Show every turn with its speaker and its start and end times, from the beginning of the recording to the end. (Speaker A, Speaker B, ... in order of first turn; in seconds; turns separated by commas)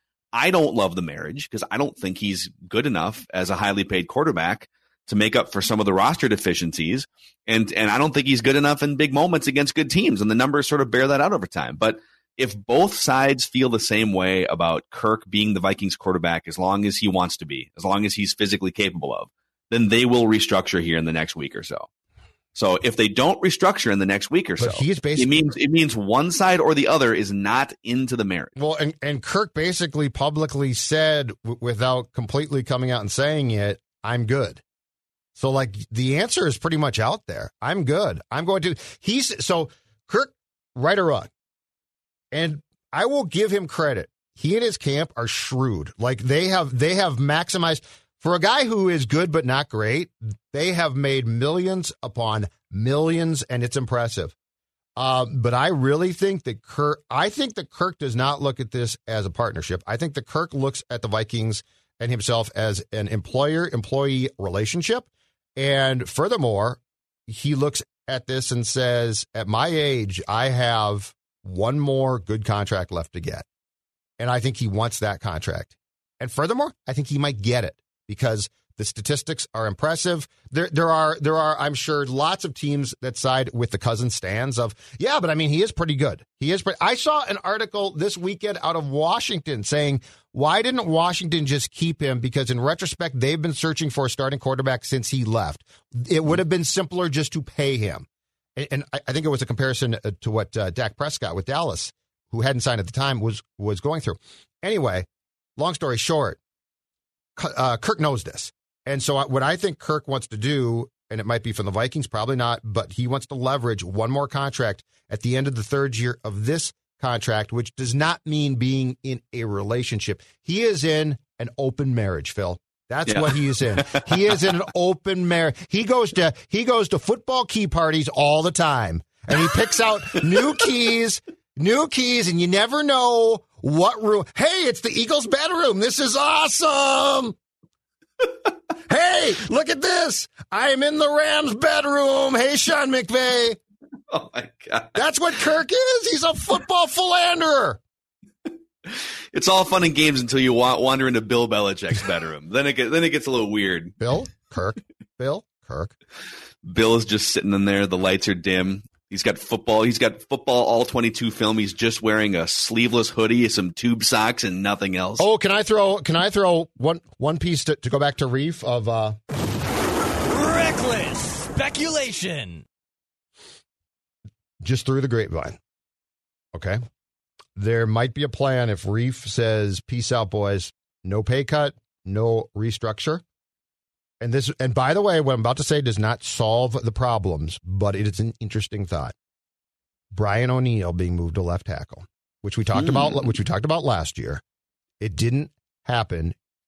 Speaker A: 0.3-21.9, Speaker A: 22.5-28.5, Speaker B: 24.6-25.4, Speaker B: 28.6-34.6, Speaker B: 35.3-41.3, Speaker B: 42.3-54.3, Speaker B: 55.0-73.5, Speaker B: 74.2-105.0, Speaker B: 105.6-106.4, Speaker B: 107.3-137.4, Speaker A: 123.1-124.1, Speaker B: 138.9-143.6, Speaker A: 144.1-145.0, Speaker B: 144.9-147.8, Speaker A: 148.9-153.9, Speaker B: 154.0-155.9, Speaker A: 156.6-165.2, Speaker B: 165.2-169.2, Speaker C: 170.3-172.6, Speaker B: 174.6-175.6, Speaker B: 176.5-176.8, Speaker B: 177.6-183.2, Speaker B: 184.2-189.1, Speaker B: 190.1-194.4, Speaker A: 192.7-193.2, Speaker B: 195.0-196.3